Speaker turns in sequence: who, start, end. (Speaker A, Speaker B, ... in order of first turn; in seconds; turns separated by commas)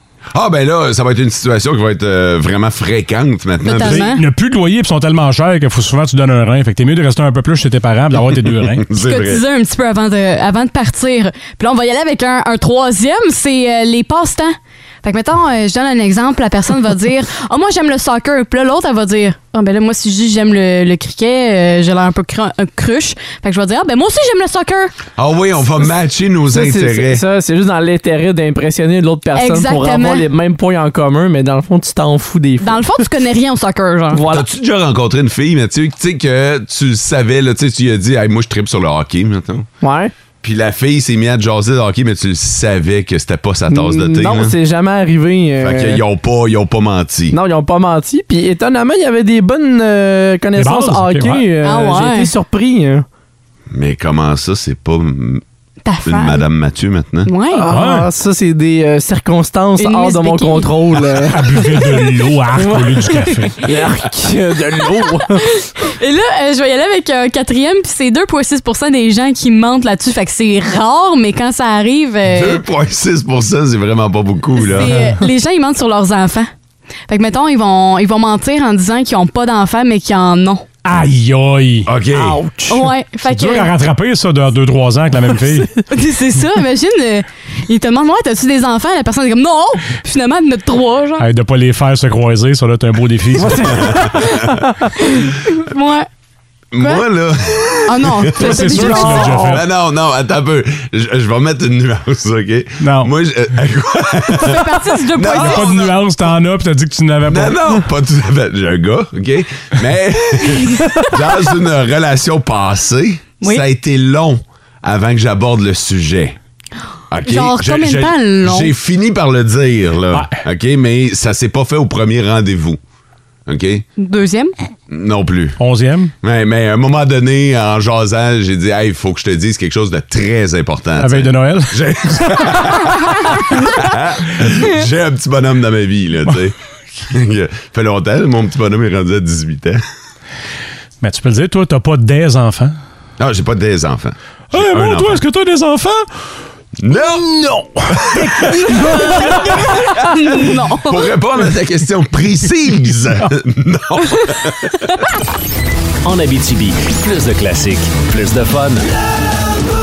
Speaker A: 0.3-4.1, Speaker B: 3.6-4.2, Speaker C: 3.8-8.8, Speaker A: 8.2-9.4, Speaker B: 8.9-24.9, Speaker A: 25.2-27.2, Speaker D: 26.5-33.0, Speaker B: 29.4-30.2, Speaker B: 32.6-34.2, Speaker D: 34.1-34.5, Speaker A: 34.3-39.7, Speaker D: 39.8-40.1, Speaker A: 40.4-44.6, Speaker D: 43.7-46.0, Speaker A: 45.6-47.4, Speaker D: 47.3-53.1, Speaker C: 50.6-51.5, Speaker B: 51.6-52.3, Speaker A: 53.7-55.4, Speaker B: 55.9-56.4, Speaker A: 56.0-57.3, Speaker B: 57.2-57.7, Speaker D: 57.5-61.5, Speaker C: 57.7-58.1, Speaker B: 59.8-60.7, Speaker C: 61.2-63.7, Speaker D: 62.5-65.4, Speaker B: 65.0-72.6, Speaker A: 72.3-75.0, Speaker B: 74.6-76.5, Speaker B: 77.1-80.7, Speaker C: 80.8-81.9, Speaker A: 81.9-82.4, Speaker D: 82.1-82.9, Speaker B: 82.7-83.7, Speaker C: 83.3-85.8, Speaker B: 85.9-91.3, Speaker C: 91.2-93.9, Speaker D: 93.4-94.7, Speaker A: 93.8-94.3, Speaker B: 95.0-96.1, Speaker A: 96.7-106.1, Speaker B: 96.8-97.0, Speaker B: 97.9-99.4, Speaker C: 98.4-99.7, Speaker D: 98.7-99.6, Speaker C: 102.8-103.1, Speaker B: 104.3-105.7, Speaker C: 105.3-107.6, Speaker A: 107.3-116.4, Speaker B: 110.8-111.0, Speaker A: 117.1-122.8, Speaker B: 117.2-118.7, Speaker C: 120.1-120.4, Speaker A: 123.5-123.8, Speaker B: 124.0-124.5, Speaker A: 124.9-125.6, Speaker C: 125.6-126.1, Speaker A: 126.2-139.8, Speaker C: 131.0-132.4, Speaker C: 141.0-142.8, Speaker A: 143.2-145.2, Speaker C: 144.5-146.1, Speaker A: 146.8-147.3, Speaker C: 147.2-148.7, Speaker A: 147.9-148.9, Speaker B: 148.9-151.1, Speaker A: 149.8-154.8, Speaker E: 156.0-158.9